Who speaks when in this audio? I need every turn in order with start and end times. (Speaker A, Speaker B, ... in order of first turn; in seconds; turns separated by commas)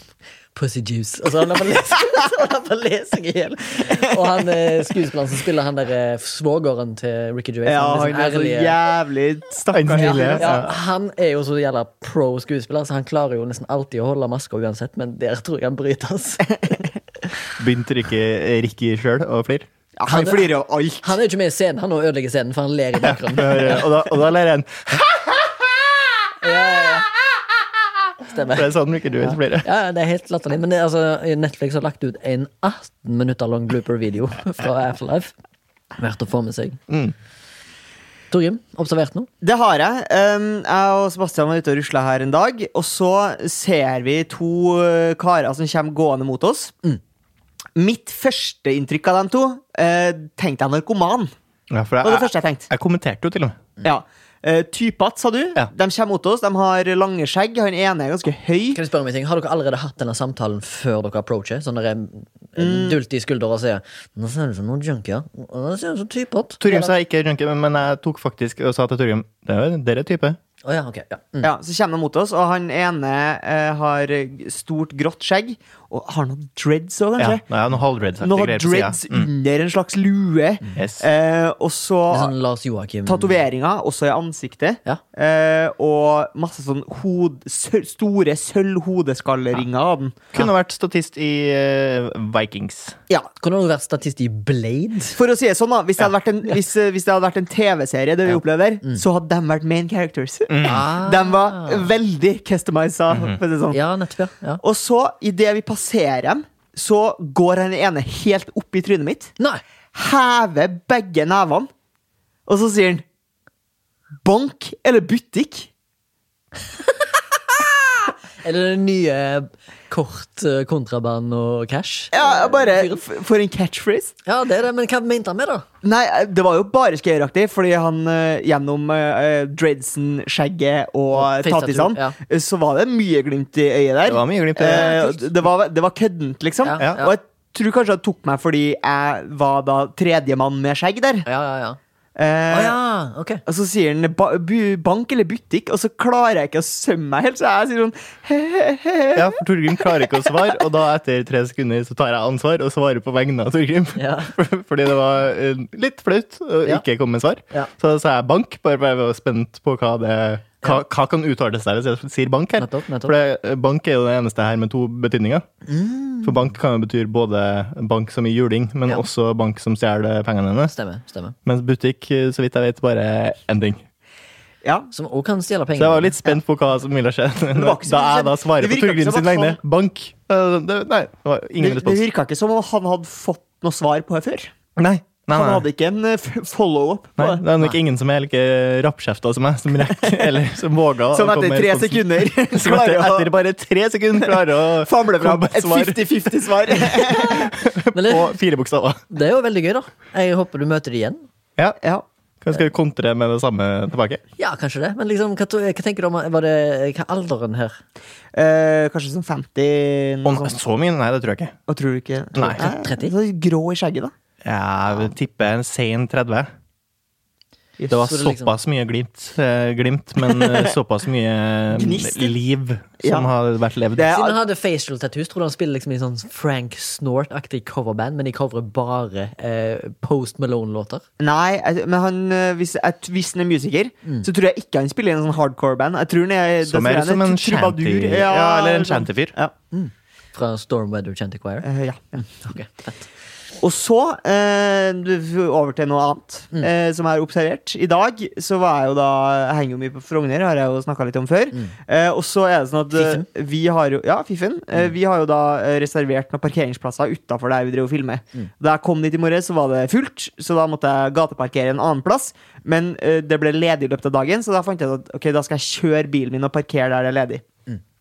Speaker A: 0.5-8.8, Speaker B: 7.7-10.6, Speaker C: 9.7-10.7, Speaker A: 10.0-16.9, Speaker C: 17.6-19.7, Speaker B: 20.0-21.2, Speaker A: 20.1-20.5, Speaker A: 21.0-23.9, Speaker C: 23.0-25.1, Speaker A: 26.4-27.1, Speaker A: 28.2-35.3, Speaker C: 28.5-29.7, Speaker A: 36.0-36.8, Speaker C: 36.9-37.1, Speaker A: 38.3-39.3, Speaker B: 39.4-46.7, Speaker B: 47.8-51.3, Speaker C: 51.7-53.6, Speaker B: 52.0-52.7, Speaker B: 53.8-58.8, Speaker A: 58.7-66.9, Speaker B: 62.6-63.0, Speaker C: 66.6-70.4, Speaker A: 70.6-71.5, Speaker B: 71.4-77.4, Speaker C: 77.2-79.3, Speaker B: 78.2-82.3, Speaker C: 80.8-81.0, Speaker A: 82.1-83.4, Speaker B: 83.1-90.4, Speaker C: 90.3-93.0, Speaker A: 93.4-95.2, Speaker B: 95.2-103.8, Speaker A: 98.3-99.0, Speaker C: 100.5-100.9, Speaker A: 100.6-101.9, Speaker C: 103.1-103.4, Speaker A: 103.7-104.6, Speaker B: 104.6-109.3, Speaker B: 110.0-111.7, Speaker B: 112.5-113.0, Speaker B: 114.2-115.7, Speaker A: 116.8-123.0, Speaker B: 122.1-124.1, Speaker A: 124.2-125.7, Speaker B: 125.8-141.3, Speaker A: 131.1-132.2, Speaker C: 134.1-135.0, Speaker A: 134.7-135.2, Speaker A: 136.6-137.2, Speaker A: 141.3-141.8, Speaker B: 142.2-142.8, Speaker A: 142.5-143.4, Speaker B: 143.5-150.5, Speaker C: 149.2-165.5, Speaker A: 153.9-154.3, Speaker A: 162.6-163.1, Speaker A: 165.7-166.5, Speaker C: 166.2-170.7, Speaker A: 170.7-171.4, Speaker C: 171.4-173.8, Speaker B: 174.6-174.9, Speaker A: 174.9-176.4, Speaker C: 175.8-182.0, Speaker B: 177.5-179.6, Speaker B: 181.6-184.5, Speaker C: 184.8-185.7, Speaker B: 185.3-187.5, Speaker C: 187.2-196.0, Speaker B: 190.1-190.3, Speaker B: 191.1-193.3, Speaker B: 194.2-197.5, Speaker A: 196.9-198.3, Speaker C: 197.2-199.0, Speaker A: 199.1-201.2, Speaker C: 202.4-204.2, Speaker A: 204.4-207.8, Speaker B: 208.3-210.6, Speaker C: 210.2-211.6, Speaker B: 211.7-214.1, Speaker C: 212.3-212.7, Speaker A: 212.4-213.1, Speaker C: 214.4-216.5, Speaker C: 217.9-224.1, Speaker A: 218.0-218.5, Speaker B: 220.3-220.7, Speaker B: 221.7-222.4, Speaker B: 223.0-223.3, Speaker B: 224.0-224.4, Speaker A: 224.1-231.0, Speaker B: 231.2-239.5, Speaker C: 236.6-239.3, Speaker A: 239.7-241.7, Speaker B: 241.6-242.2, Speaker A: 242.2-243.1, Speaker B: 243.6-267.4, Speaker A: 252.9-253.3